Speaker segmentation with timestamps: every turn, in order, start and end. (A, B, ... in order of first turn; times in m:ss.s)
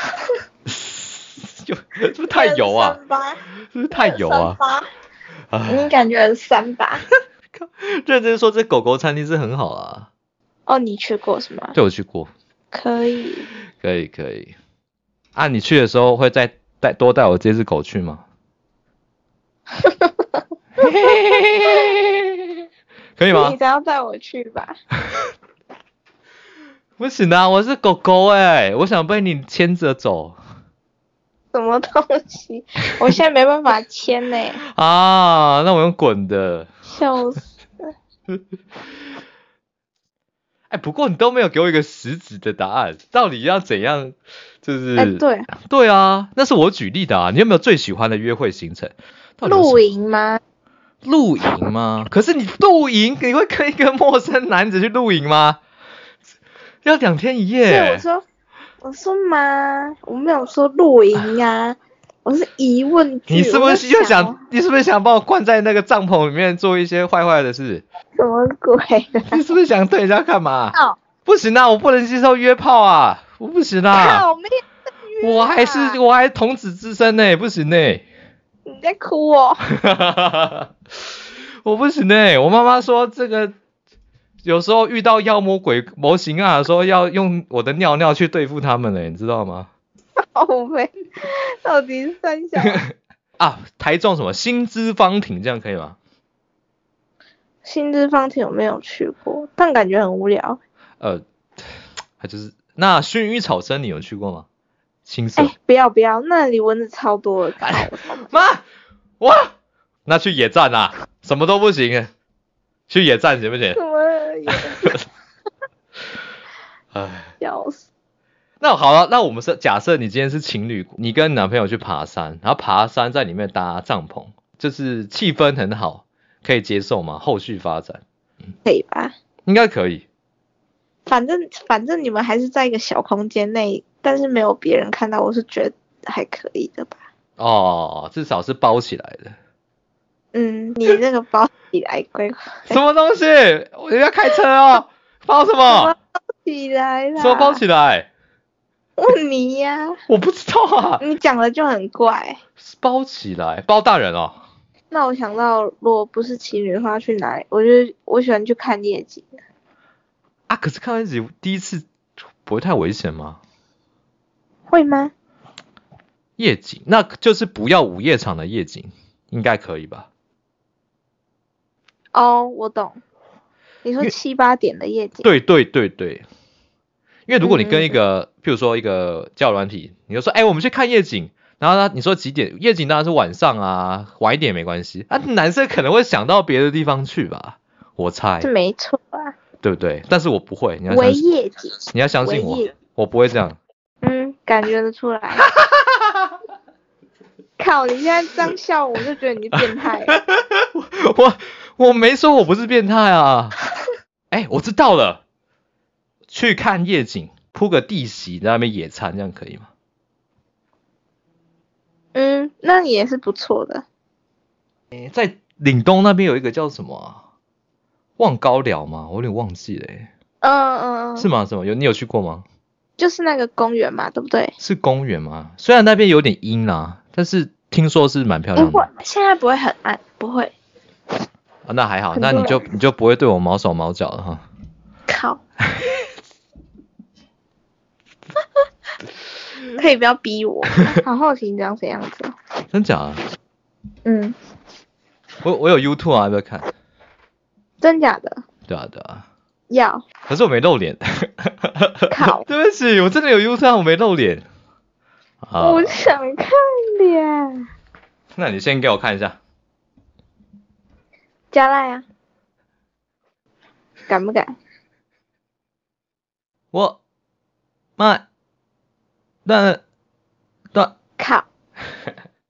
0:00.7-0:03.0 A
0:02.3-0:03.4 B
0:03.7-0:04.6 A
0:03.9-0:04.9 B
0:05.5-0:05.9 A
0:05.7-0:07.0 B
0:07.5-0:10.1 A
0:10.7-0:11.8 B
0:11.7-0:12.3 A
0:12.7-0:13.5 B
0:13.8-0:14.5 A
0:15.3-0:18.2 A
0:19.8-0:20.2 B
0:20.8-0:22.2 A
0:23.2-0:23.6 A
0:23.3-0:24.7 B
0:27.0-0:30.4 A
0:31.5-0:34.6 B
0:34.6-0:36.7 A
0:36.9-0:37.4 B
0:40.7-0:49.8 A
0:45.0-0:45.5 B
0:49.4-0:50.4 B
0:51.0-0:55.6 A
0:56.8-0:58.0 A
0:57.7-0:58.2 B
0:58.8-1:04.4 B
1:03.3-1:07.8 A
1:08.2-1:09.4 B
1:09.3-1:14.2 A
1:13.9-1:14.5 B
1:15.1-1:16.0 B
1:15.2-1:18.0 A
1:18.6-1:19.6 B
1:19.8-1:20.7 A
1:21.6-1:23.5 A
1:24.4-1:29.7 A
1:30.3-1:32.8 B
1:33.4-1:36.0 A
1:37.6-1:40.6 B
1:42.2-1:44.5 A
1:45.0-1:45.5 A
1:45.4-1:48.5 B
1:47.6-1:48.6 A
1:49.2-1:49.5 A
1:50.0-1:52.1 A
1:52.9-1:53.8 A
1:53.7-1:55.0 B
1:54.5-1:54.9 A
1:56.9-1:57.3 A
1:57.4-1:57.9 B
1:58.6-2:08.0 A
2:08.6-2:09.1 B
2:09.4-2:10.0 A
2:11.1-2:17.0 B
2:17.4-2:19.3 A
2:20.3-2:22.8 B
2:22.7-2:25.9 A
2:25.7-2:27.6 B
2:27.2-2:28.1 A
2:29.0-2:29.9 B
2:30.1-2:31.0 A
2:31.0-2:32.4 B
2:32.6-2:34.4 A
2:34.9-2:39.3 B
2:40.5-2:41.8 A
2:42.4-2:43.4 A
2:44.7-2:45.1 B
2:46.4-2:50.1 A
2:52.1-2:53.0 B
2:53.8-2:55.3 B
2:55.2-2:56.2 A
2:57.3-3:08.5 A
2:57.4-2:58.0 B
3:08.4-3:09.3 B
3:09.6-3:11.2 A
3:10.9-3:12.7 B
3:11.9-3:13.6 A
3:14.0-3:15.4 B
3:17.6-3:20.2 B
3:19.6-3:23.6 A
3:24.3-3:25.2 A
3:26.3-3:29.7 A
3:32.1-3:33.8 B
3:34.9-3:37.2 A
3:38.2-3:40.1 A
3:40.4-3:41.3 B
3:41.2-3:42.4 A
3:43.0-3:44.5 B
3:44.6-3:48.9 A
3:48.6-3:50.5 B
3:51.6-3:54.4 A
3:52.1-3:52.6 B
3:55.1-3:55.4 B
3:59.8-4:02.3 B
4:02.7-4:03.2 A
4:04.0-4:04.4 B
4:05.4-4:06.7 A
4:07.8-4:08.4 B
4:08.7-4:09.2 A
4:09.7-4:10.0 B
4:10.3-4:14.4 A
4:12.1-4:12.4 B
4:15.4-4:15.9 A
4:15.6-4:17.6 B
4:18.3-4:19.4 A
4:21.5-4:22.0 B
4:24.1-4:24.5 B
4:26.7-4:27.0 A
4:28.0-4:28.2 A
4:29.4-4:29.8 A
4:31.2-4:31.4 B